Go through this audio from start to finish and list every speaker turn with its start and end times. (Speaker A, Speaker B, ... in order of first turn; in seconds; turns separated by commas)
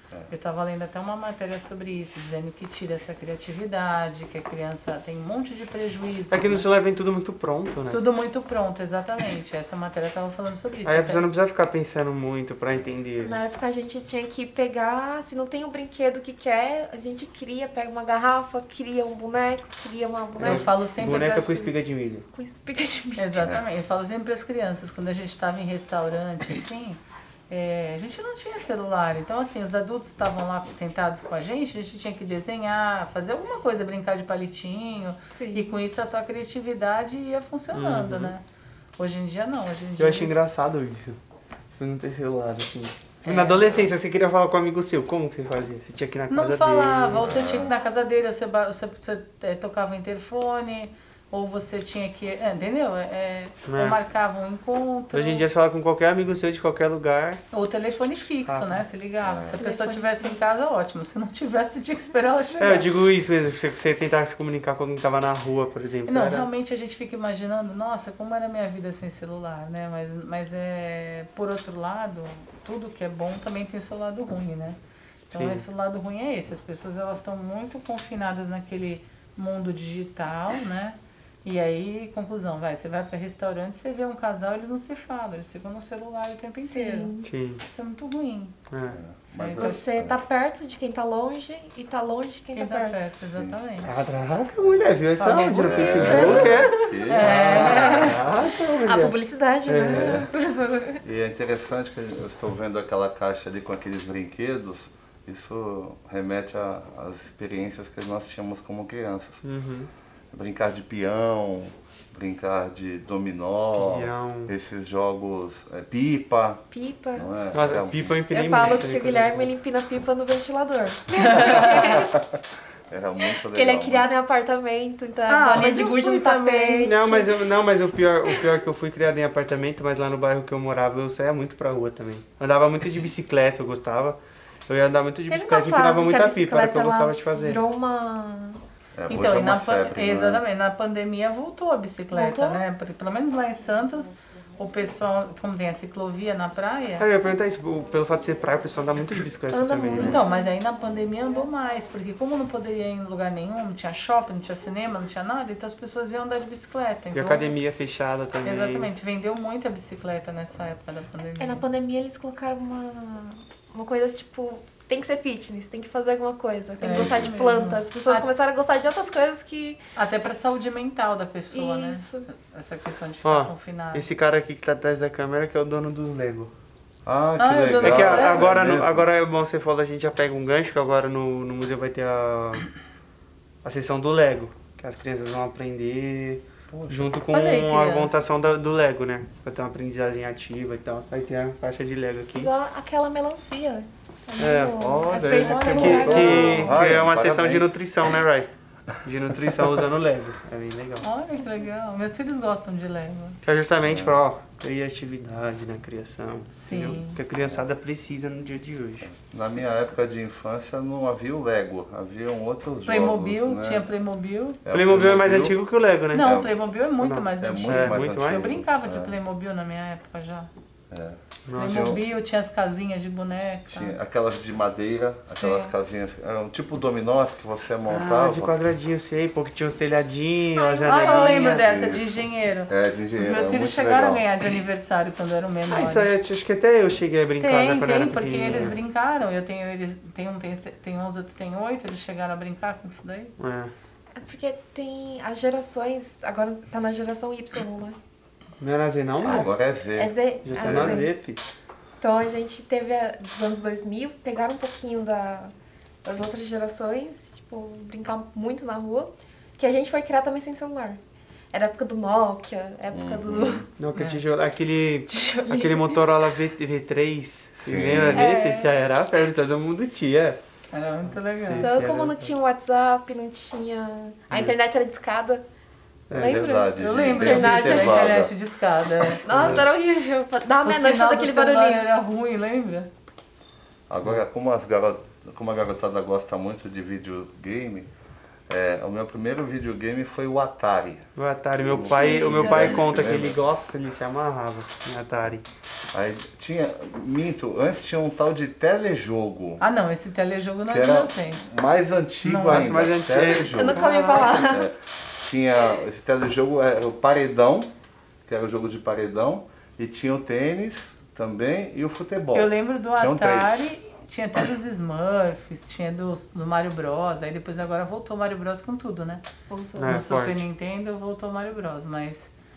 Speaker A: 0.3-6.7, Speaker B: 6.3-8.0, Speaker A: 7.9-11.3, Speaker B: 10.8-13.4, Speaker C: 13.2-20.7, Speaker A: 20.4-21.7, Speaker B: 20.4-22.2, Speaker C: 22.3-23.6, Speaker A: 23.2-38.4, Speaker C: 35.3-35.8, Speaker B: 37.7-38.3, Speaker A: 39.0-40.5, Speaker B: 40.0-41.2, Speaker B: 41.8-47.3, Speaker A: 43.2-43.8, Speaker A: 46.3-55.4, Speaker D: 47.2-47.7, Speaker B: 53.6-54.0, Speaker B: 55.1-57.4, Speaker A: 57.5-62.9, Speaker B: 58.4-58.8, Speaker D: 59.2-59.6, Speaker C: 59.6-60.3, Speaker B: 62.6-66.5, Speaker A: 66.1-74.8, Speaker B: 75.3-75.6, Speaker A: 75.3-87.1, Speaker C: 86.6-87.3, Speaker B: 87.2-87.6, Speaker A: 87.6-88.5, Speaker B: 88.7-89.0, Speaker D: 88.9-90.2, Speaker A: 89.4-89.8, Speaker C: 89.6-93.1, Speaker A: 92.5-93.9, Speaker D: 93.2-93.6, Speaker B: 93.8-100.0, Speaker D: 94.6-94.9, Speaker A: 95.2-98.2, Speaker D: 95.5-97.3, Speaker C: 96.1-101.0, Speaker D: 98.1-98.8, Speaker D: 99.8-100.3, Speaker D: 101.0-109.4, Speaker B: 109.4-109.9, Speaker D: 110.3-118.4, Speaker B: 113.7-114.5, Speaker C: 116.7-117.3, Speaker B: 117.5-119.5, Speaker C: 118.3-122.1, Speaker A: 121.2-122.0, Speaker D: 121.4-122.4, Speaker D: 122.9-124.1, Speaker C: 123.3-127.3, Speaker A: 125.3-127.0, Speaker B: 126.8-137.6, Speaker C: 135.3-138.6, Speaker D: 138.9-140.4, Speaker A: 139.1-147.1, Speaker C: 142.1-142.6, Speaker B: 147.0-150.2, Speaker C: 149.5-150.5, Speaker A: 149.9-157.5, Speaker B: 157.1-158.9, Speaker A: 158.4-161.6, Speaker C: 161.4-169.8, Speaker A: 166.8-168.3, Speaker D: 166.9-167.3, Speaker A: 169.9-174.1, Speaker C: 171.5-172.3, Speaker B: 173.2-176.5, Speaker D: 177.0-179.1, Speaker A: 177.4-178.6, Speaker B: 177.8-182.7, Speaker B: 183.6-192.5, Speaker D: 186.7-187.2, Speaker A: 187.3-188.2, Speaker C: 192.3-196.8, Speaker B: 194.4-198.5, Speaker A: 195.1-196.7, Speaker D: 196.0-198.2, Speaker B: 199.0-201.1, Speaker A: 201.0-203.4, Speaker B: 203.4-209.1, Speaker D: 203.8-204.2, Speaker A: 206.5-207.2, Speaker D: 207.3-207.7, Speaker D: 209.0-213.9, Speaker A: 212.8-214.6, Speaker D: 214.6-216.7, Speaker B: 214.7-216.3, Speaker A: 216.1-220.5, Speaker B: 217.0-218.5, Speaker D: 217.3-219.2, Speaker D: 220.9-222.0, Speaker B: 221.4-221.8, Speaker A: 221.5-224.0, Speaker D: 223.7-228.6, Speaker A: 225.3-225.7, Speaker B: 227.9-231.5, Speaker C: 230.5-231.7, Speaker A: 230.8-236.2, Speaker D: 231.7-232.1, Speaker D: 232.7-234.3, Speaker B: 235.7-238.8, Speaker A: 237.4-243.3, Speaker B: 243.4-243.7, Speaker C: 244.2-248.0, Speaker B: 248.6-249.5, Speaker D: 249.2-250.2, Speaker C: 249.2-251.1, Speaker B: 250.4-251.4, Speaker C: 252.0-255.5, Speaker C: 256.0-261.0, Speaker C: 261.5-263.7, Speaker D: 262.9-263.7, Speaker B: 263.8-270.4, Speaker A: 263.9-264.2, Speaker C: 265.1-266.4, Speaker D: 267.6-268.4, Speaker C: 268.1-268.8, Speaker A: 270.7-271.7, Speaker B: 271.2-272.3, Speaker C: 271.6-275.4, Speaker B: 276.1-276.4, Speaker C: 276.1-278.2, Speaker D: 276.1-278.3, Speaker A: 276.8-279.6, Speaker C: 279.2-281.9, Speaker A: 280.6-282.9, Speaker D: 283.9-287.9, Speaker D: 288.5-291.1, Speaker B: 291.1-295.4, Speaker D: 291.6-293.5, Speaker C: 291.6-292.9, Speaker D: 295.9-299.6, Speaker A: 299.6-301.4, Speaker D: 300.7-303.8, Speaker A: 302.2-302.7, Speaker B: 302.4-304.4, Speaker C: 303.4-304.7, Speaker A: 303.8-304.1, Speaker D: 304.4-307.7, Speaker D: 308.2-313.7, Speaker A: 312.3-319.2, Speaker C: 319.5-320.0, Speaker B: 319.8-320.5, Speaker A: 319.8-322.3